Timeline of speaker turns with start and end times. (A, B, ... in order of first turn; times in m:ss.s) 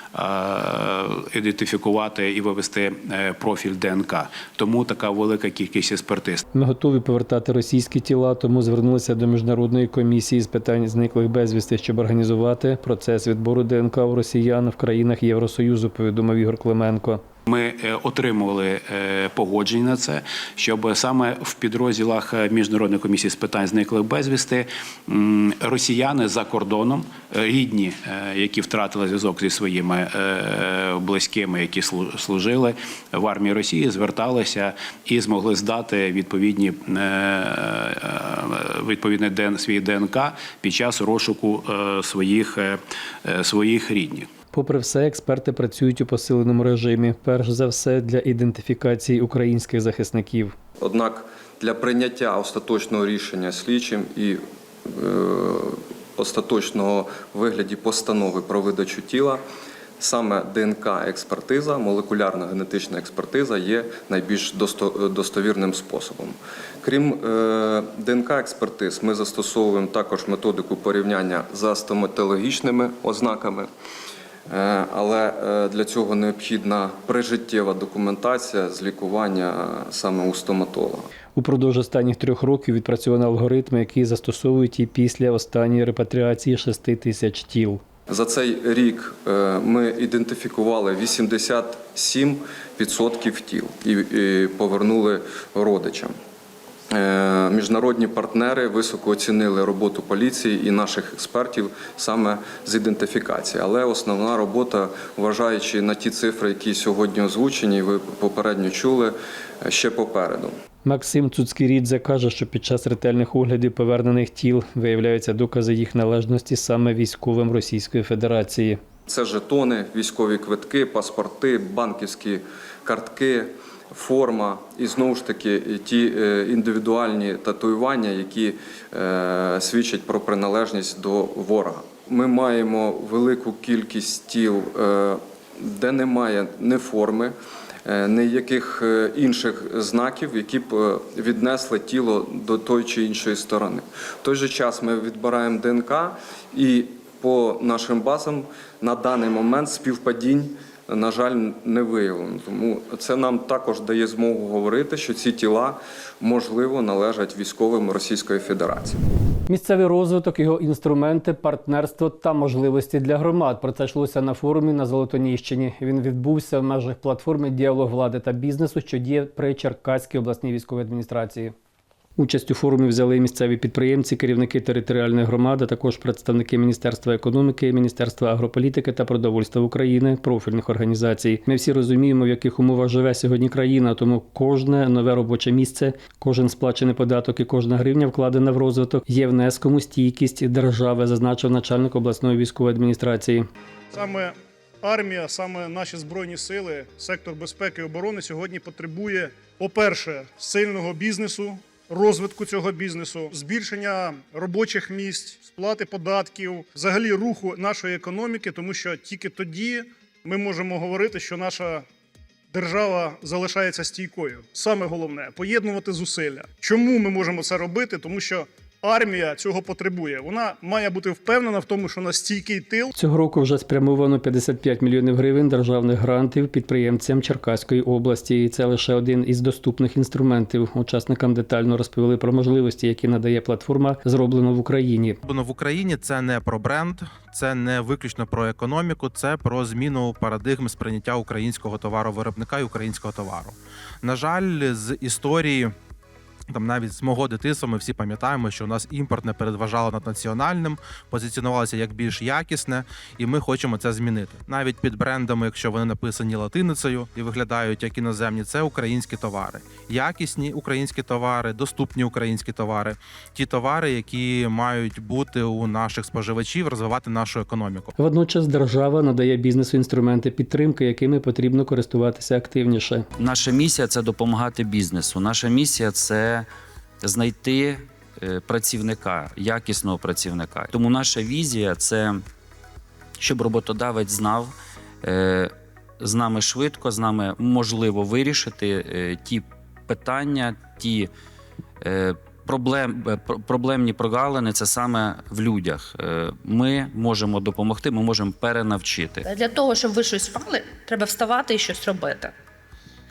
0:00.1-0:06.4 A
0:06.5-0:17.2 B
0:17.5-0:44.3 A
0:44.5-0:50.6 B
0:50.8-0:59.4 C
1:00.0-1:13.7 C
1:14.5-1:21.1 C
1:21.4-1:27.8 B
1:28.1-1:36.2 C
1:36.9-1:50.6 C
1:50.8-1:58.8 B
1:59.1-2:17.3 C
2:17.9-2:39.0 C
2:39.5-2:51.5 B
2:52.2-3:13.5 B
3:13.9-3:31.8 D
3:32.5-3:42.9 D
3:43.0-3:55.2 B
3:55.2-4:05.7 E
4:06.5-4:27.9 E
4:28.0-4:33.1 B
4:33.2-4:36.5 F
4:37.0-4:42.2 F
4:43.2-4:51.1 F
4:51.8-4:59.2 F
4:59.2-5:02.3 G